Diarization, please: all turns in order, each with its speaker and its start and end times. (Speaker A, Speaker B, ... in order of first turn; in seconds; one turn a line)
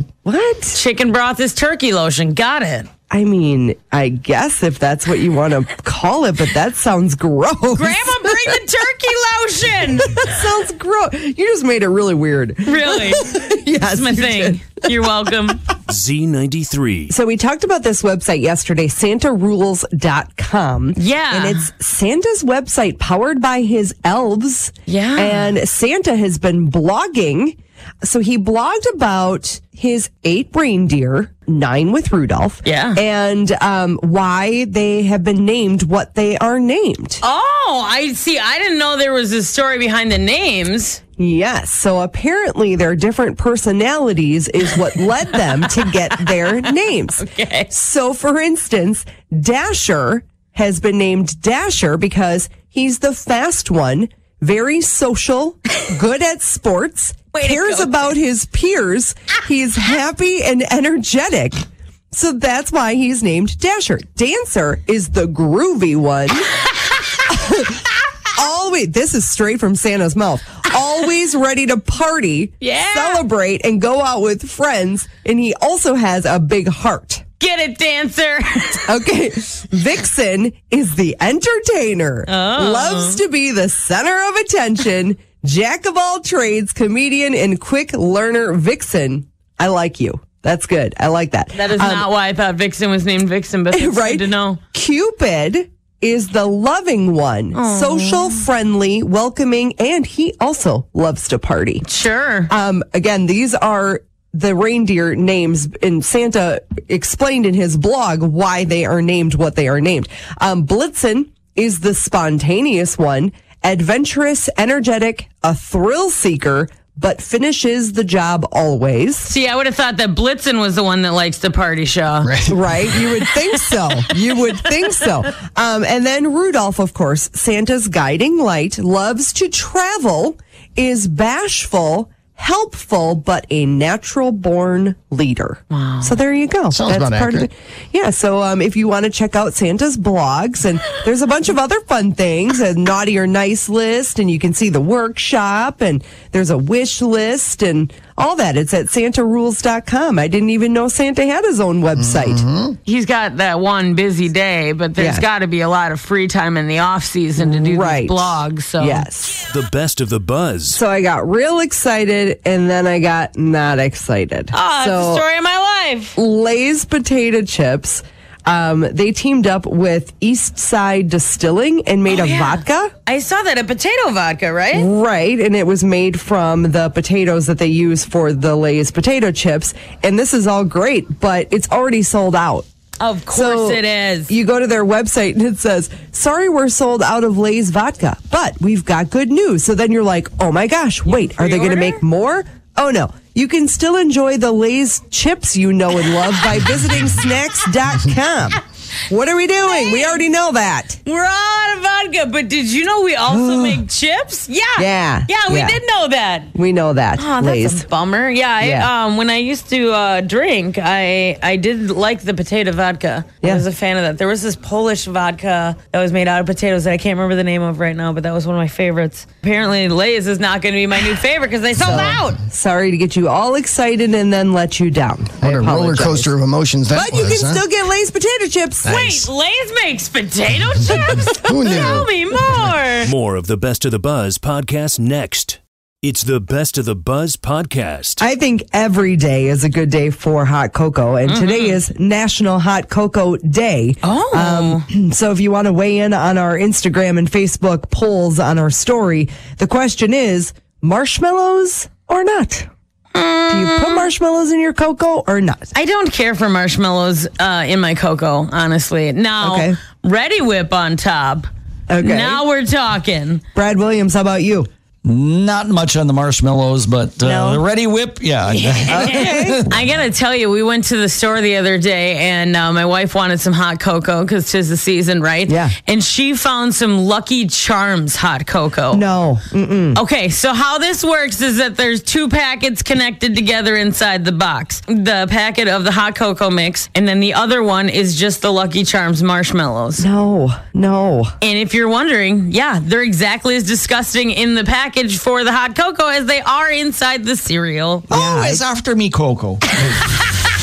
Speaker A: 0.2-0.8
Speaker B: 0.7-2.9
Speaker A: 3.1-8.3
Speaker B: 7.7-10.3
Speaker A: 10.1-14.7
Speaker B: 12.7-15.6
Speaker C: 15.9-17.1
Speaker A: 17.1-37.2
Speaker B: 21.0-21.7
Speaker B: 24.9-25.6
Speaker B: 32.6-33.0
Speaker B: 37.2-41.0
Speaker A: 41.2-66.5
Speaker B: 45.5-47.7
Speaker B: 57.3-58.1
Speaker A: 67.3-77.2
Speaker B: 72.6-73.2
Speaker B: 77.4-78.9
Speaker A: 78.9-92.1
Speaker B: 82.3-83.2
Speaker B: 91.5-94.6
Speaker A: 93.7-101.8
Speaker B: 97.5-98.5
Speaker B: 101.8-102.5
Speaker A: 102.5-119.3
Speaker B: 119.3-122.3
Speaker D: 122.2-122.7
Speaker A: 122.5-152.4
Speaker B: 135.7-136.2
Speaker D: 136.7-137.5
Speaker D: 152.0-152.8
Speaker B: 152.9-159.1
Speaker A: 155.0-155.2
Speaker A: 157.4-159.5
Speaker C: 159.5-160.8
Speaker A: 160.7-165.2
Speaker B: 164.5-166.2
Speaker A: 166.2-172.9
Speaker B: 172.1-174.9
Speaker A: 174.7-182.7
Speaker B: 183.0-184.3
Speaker A: 183.3-201.0
Speaker B: 191.1-192.0
Speaker B: 199.7-200.2
Speaker B: 201.1-206.5
Speaker A: 203.3-203.8
Speaker A: 204.8-205.8
Speaker A: 206.6-207.8
Speaker B: 207.2-222.4
Speaker A: 208.6-208.9
Speaker A: 221.8-226.3
Speaker D: 225.4-227.6
Speaker A: 226.9-229.1
Speaker B: 228.8-233.1
Speaker D: 228.9-229.3
Speaker D: 230.9-232.1
Speaker C: 233.0-238.2
Speaker A: 238.2-252.7
Speaker B: 241.3-241.8
Speaker B: 244.0-244.8
Speaker B: 253.1-254.1
Speaker A: 253.5-255.7
Speaker B: 255.7-261.5
Speaker A: 259.4-259.8
Speaker A: 261.9-262.4
Speaker B: 262.0-263.4
Speaker A: 263.6-264.7
Speaker E: 265.1-269.7
Speaker A: 267.2-267.6
Speaker B: 268.5-279.0
Speaker A: 268.9-269.7
Speaker A: 275.5-275.7
Speaker A: 278.9-280.0
Speaker B: 279.9-290.1
Speaker A: 290.0-291.3
Speaker B: 291.4-298.1
Speaker A: 298.1-298.6
Speaker E: 298.1-299.8